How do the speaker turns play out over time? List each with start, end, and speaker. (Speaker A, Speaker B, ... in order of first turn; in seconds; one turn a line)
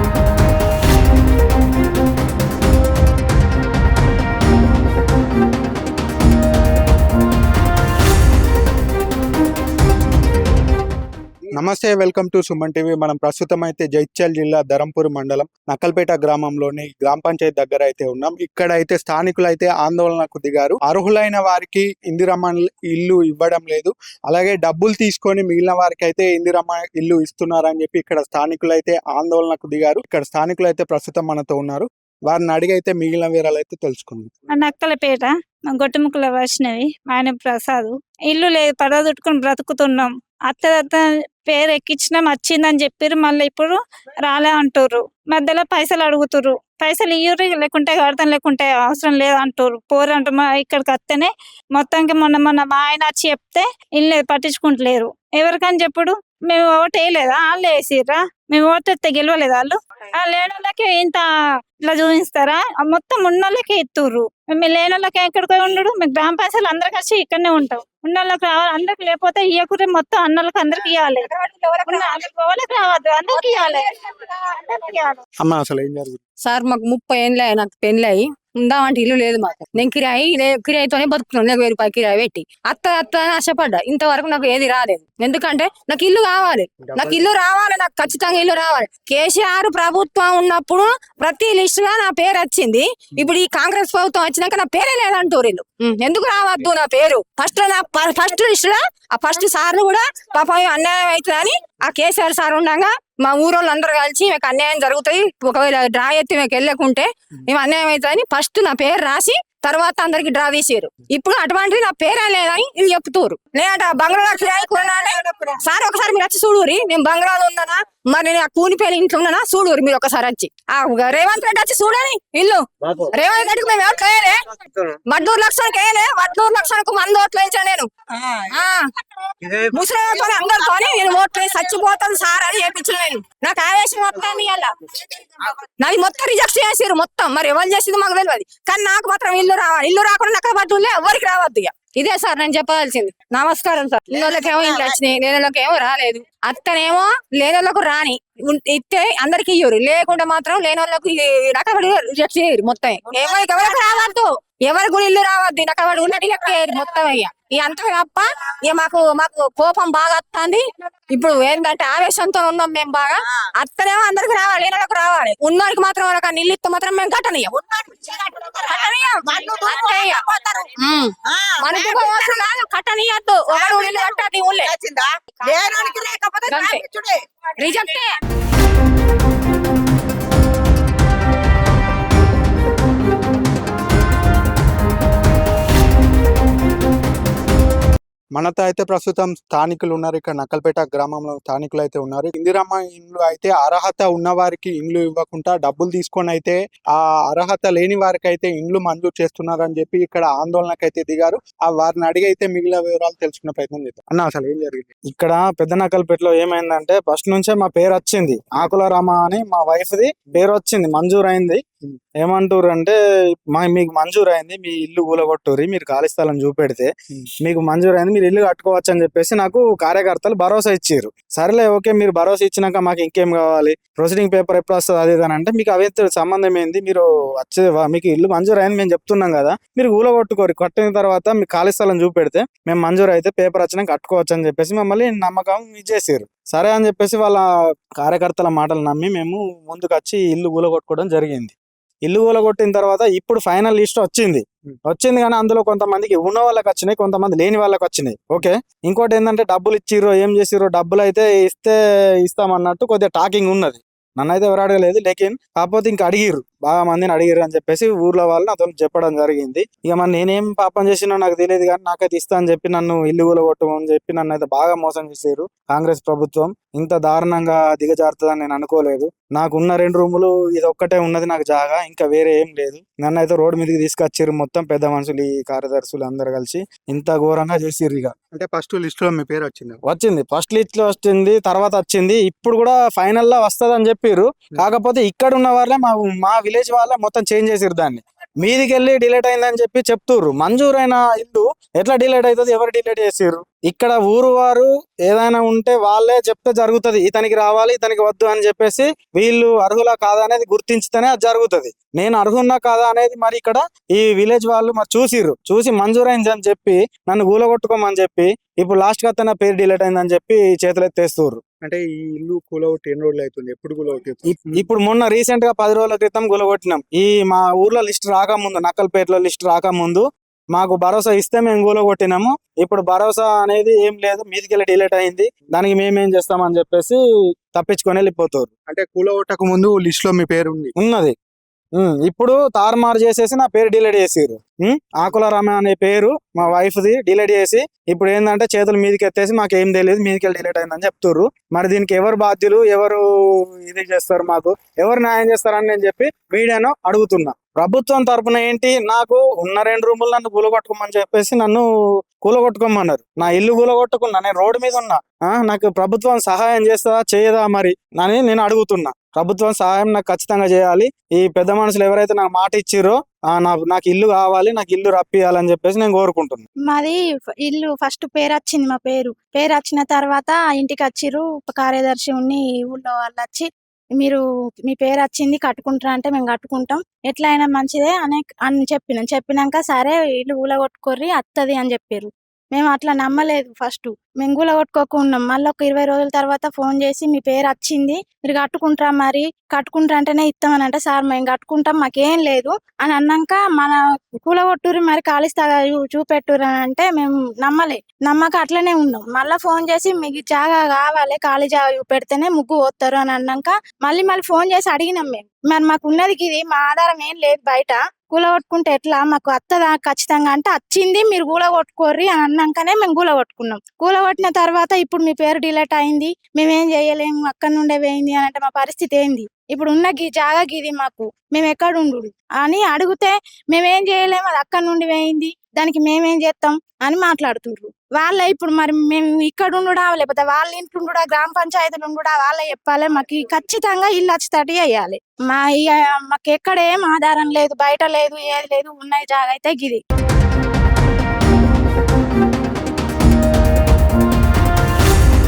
Speaker A: 11.5-34.3
Speaker B: 34.5-61.2
Speaker B: 61.8-71.3
Speaker C: 71.2-72.1
Speaker B: 71.8-75.2
Speaker C: 73.3-73.8
Speaker A: 75.4-76.2
Speaker C: 76.4-127.9
Speaker C: 128.5-128.8
Speaker C: 129.6-134.7
Speaker C: 135.5-167.5
Speaker D: 144.4-144.9
Speaker D: 167.5-170.7
Speaker C: 168.7-170.2
Speaker C: 170.8-174.7
Speaker D: 171.2-172.4
Speaker D: 173.5-177.9
Speaker C: 176.4-176.8
Speaker C: 177.6-178.1
Speaker A: 188.3-204.8
Speaker E: 205.1-211.6
Speaker E: 212.2-212.9
Speaker E: 213.5-216.9
Speaker E: 217.4-237.4
Speaker E: 238.0-278.1
Speaker A: 278.3-279.8
Speaker E: 279.9-311.4
Speaker A: 311.6-314.6
Speaker E: 314.5-327.0
Speaker E: 327.5-328.5
Speaker A: 328.7-330.7
Speaker E: 330.8-331.1
Speaker E: 331.8-366.4
Speaker F: 366.7-439.8